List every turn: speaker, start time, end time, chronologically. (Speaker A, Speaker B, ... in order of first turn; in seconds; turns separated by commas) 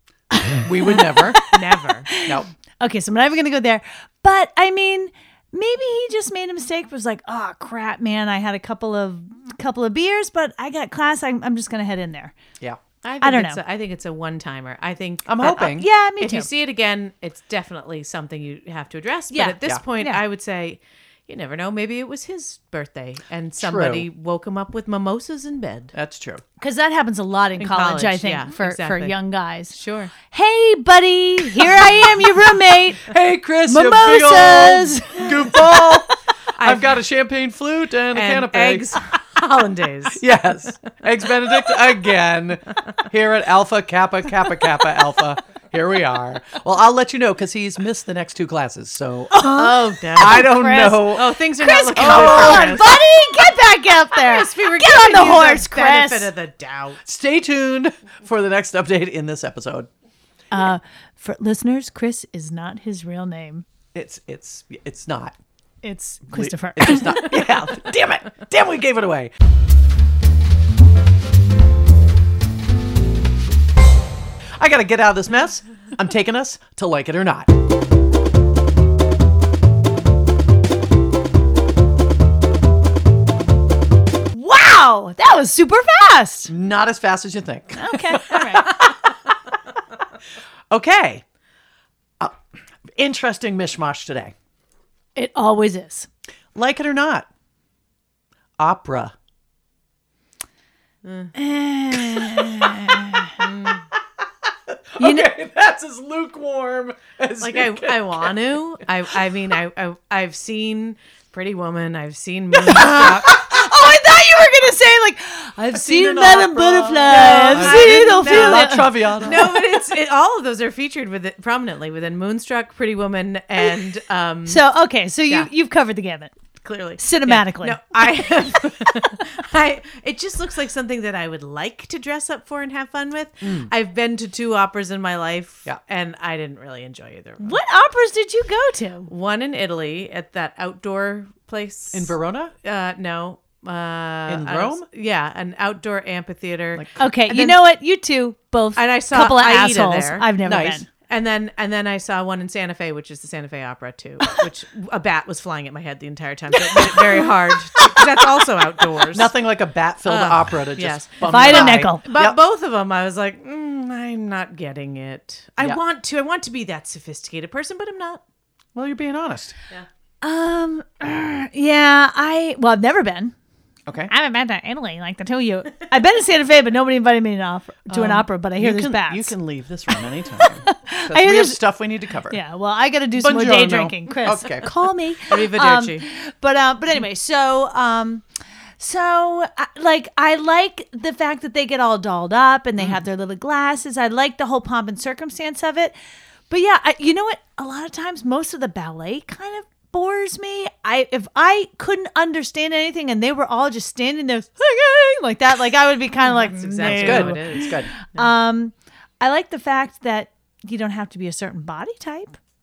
Speaker A: 0.3-12.3, Speaker B: 0.6-1.4, Speaker C: 1.5-2.1, Speaker B: 2.2-2.5, Speaker C: 13.0-25.9, Speaker A: 13.2-13.6, Speaker B: 15.2-15.9, Speaker A: 15.4-16.5, Speaker A: 19.3-20.2, Speaker B: 23.6-24.1, Speaker B: 25.9-26.4, Speaker A: 26.6-33.1, Speaker C: 27.6-29.1, Speaker C: 29.7-30.1, Speaker B: 33.0-39.0, Speaker A: 33.6-36.0, Speaker C: 36.5-37.0, Speaker C: 38.1-40.2, Speaker B: 40.1-51.3, Speaker A: 49.3-56.3, Speaker C: 49.5-53.0, Speaker B: 51.9-52.8, Speaker C: 54.1-57.0, Speaker B: 57.0-59.9, Speaker A: 60.5-63.6, Speaker B: 63.9-65.3, Speaker A: 65.8-67.3, Speaker B: 66.3-69.3, Speaker B: 74.6-77.5, Speaker A: 84.3-86.5, Speaker B: 86.5-88.9, Speaker A: 87.7-88.7, Speaker B: 90.7-91.2, Speaker B: 93.0-94.3, Speaker A: 95.1-96.1, Speaker B: 96.5-97.3, Speaker B: 98.6-99.1, Speaker C: 101.0-101.3, Speaker A: 101.3-103.4, Speaker B: 102.1-102.7, Speaker C: 103.4-103.8, Speaker B: 104.9-108.3, Speaker A: 105.0-105.3, Speaker C: 107.4-113.3, Speaker A: 112.7-119.1, Speaker B: 112.7-113.3, Speaker B: 115.7-119.6, Speaker C: 117.0-124.6, Speaker A: 124.5-126.3, Speaker C: 126.6-137.6, Speaker A: 127.0-127.8, Speaker B: 133.4-133.7, Speaker A: 137.4-139.1, Speaker C: 139.1-147.6, Speaker B: 141.9-142.5, Speaker B: 144.3-144.8, Speaker A: 147.0-150.9, Speaker C: 148.8-150.3, Speaker B: 150.4-150.8, Speaker C: 151.1-159.3, Speaker B: 156.8-157.2, Speaker B: 159.1-162.4, Speaker C: 160.1-168.2, Speaker A: 161.2-162.1, Speaker B: 168.7-169.6, Speaker A: 170.2-173.3, Speaker B: 173.9-174.1, Speaker A: 174.1-179.3, Speaker B: 177.9-182.4, Speaker A: 179.9-181.6, Speaker A: 182.3-188.2, Speaker B: 183.2-184.7, Speaker C: 185.3-186.1, Speaker A: 188.8-195.9, Speaker A: 196.5-212.4, Speaker C: 206.3-208.2, Speaker B: 206.8-207.9